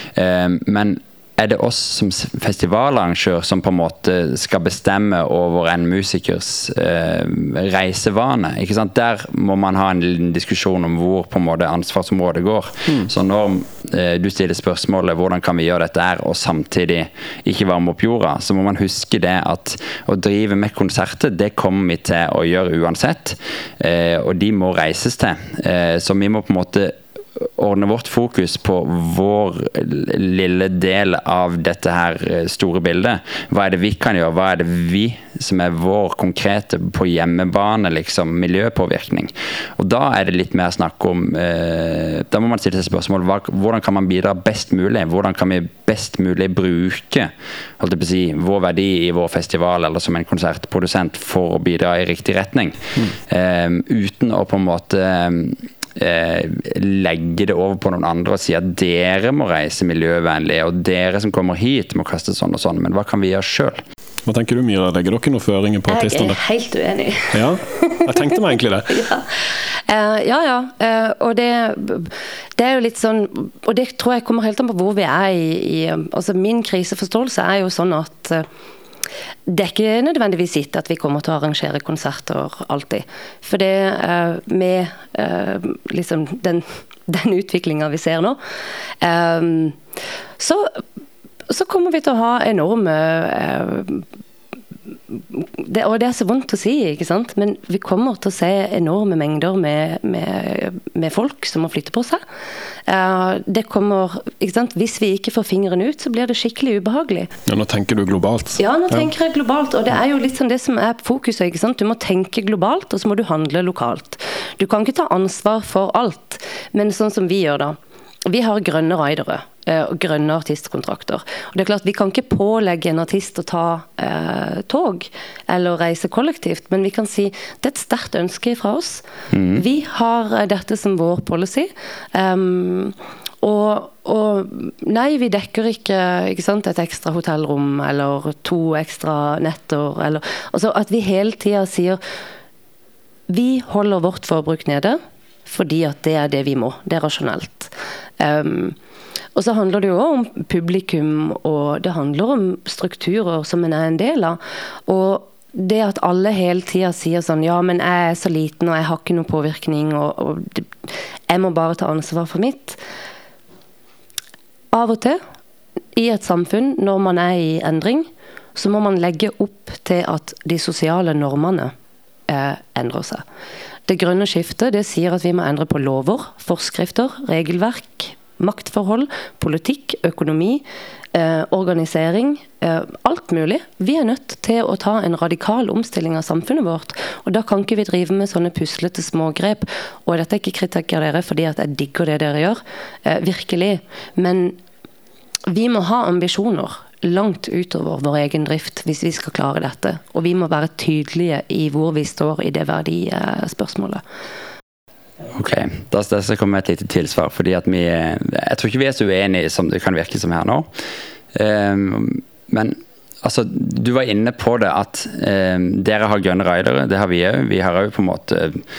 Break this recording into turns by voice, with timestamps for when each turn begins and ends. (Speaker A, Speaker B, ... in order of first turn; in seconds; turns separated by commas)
Speaker A: 0.1-63.8, Speaker B: 64.2-66.4, Speaker C: 65.9-68.4, Speaker B: 67.3-69.0, Speaker C: 68.9-69.2, Speaker C: 69.9-78.5, Speaker C: 79.5-88.4, Speaker C: 89.0-89.8, Speaker C: 90.4-90.8, Speaker C: 91.5-94.0, Speaker C: 95.1-102.2, Speaker C: 102.9-107.3, Speaker B: 107.5-109.1, Speaker C: 108.6-129.0, Speaker A: 129.3-129.6, Speaker C: 129.5-142.0, Speaker C: 143.3-148.8, Speaker C: 149.3-162.8, Speaker C: 164.7-165.2, Speaker C: 165.9-171.7, Speaker C: 172.3-173.2, Speaker C: 173.9-194.6, Speaker C: 195.5-204.0, Speaker A: 205.3-210.7, Speaker A: 211.3-218.6